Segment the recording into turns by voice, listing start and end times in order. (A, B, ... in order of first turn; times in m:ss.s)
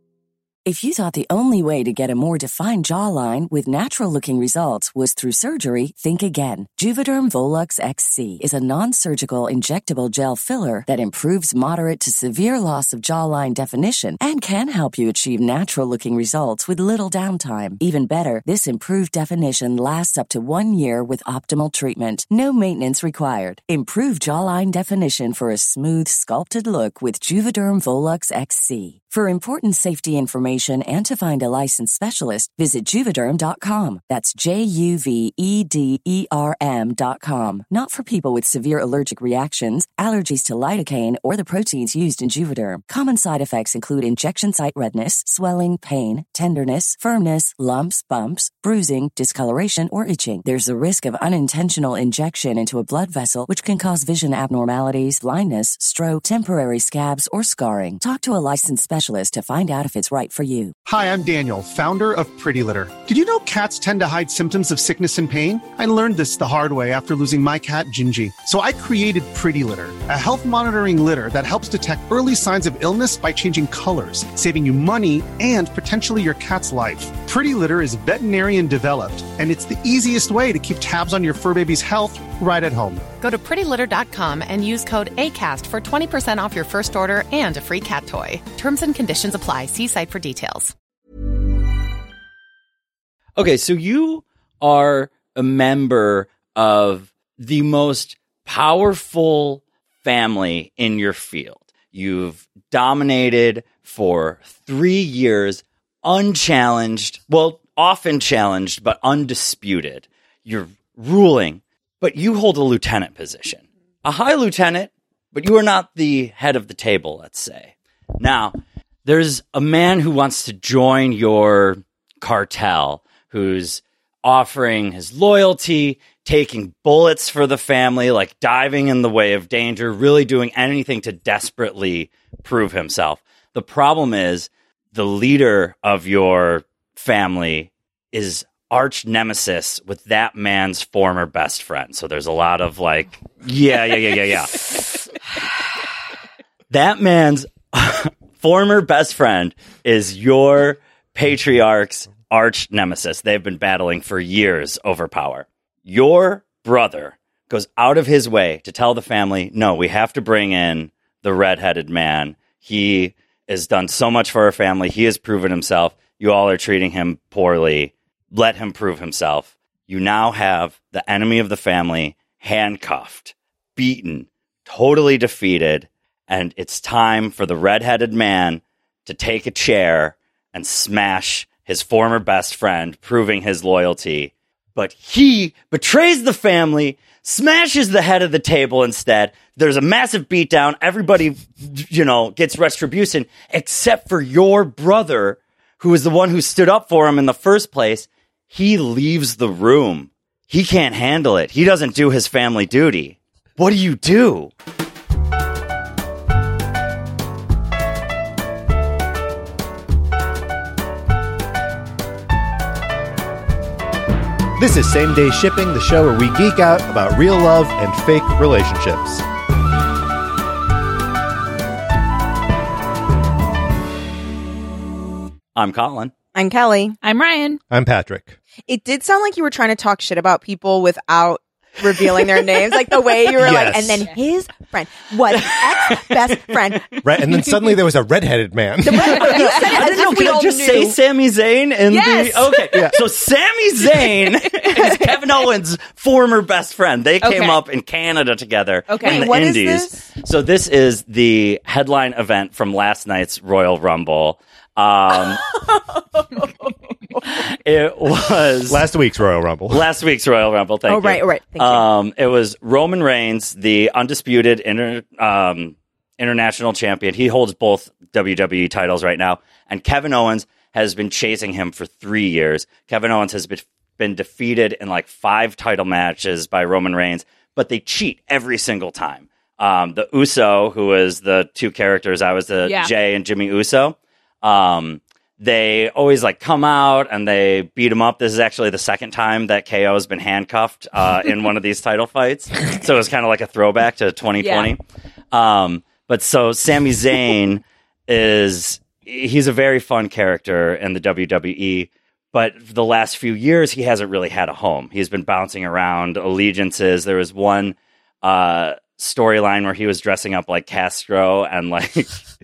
0:00.6-1:00.7 A
1:00.8-1:23.0 B
1:23.2-1:30.7 C
1:33.4-2:25.1 D
2:26.7-3:24.5 D
3:34.6-3:39.2 E
3:45.5-3:46.1 D
3:46.3-3:47.0 F
3:47.0-3:47.6 G
3:47.7-3:48.4 E
3:48.7-3:56.9 F
3:53.3-3:54.1 E
3:55.3-3:57.0 D
3:57.0-3:59.5 E
3:58.8-4:01.0 F
3:59.1-3:59.6 G
3:59.4-4:15.5 D
4:01.9-4:03.0 G
4:04.0-4:04.9 G
4:07.2-4:07.6 G
4:08.9-4:09.3 G
4:09.0-4:10.0 F
4:17.3-4:18.8 D
4:18.7-4:19.9 E
4:19.7-4:54.8 D
4:20.9-4:21.8 F
4:42.6-4:42.9 G
4:54.4-4:54.7 G
4:55.3-5:12.2 D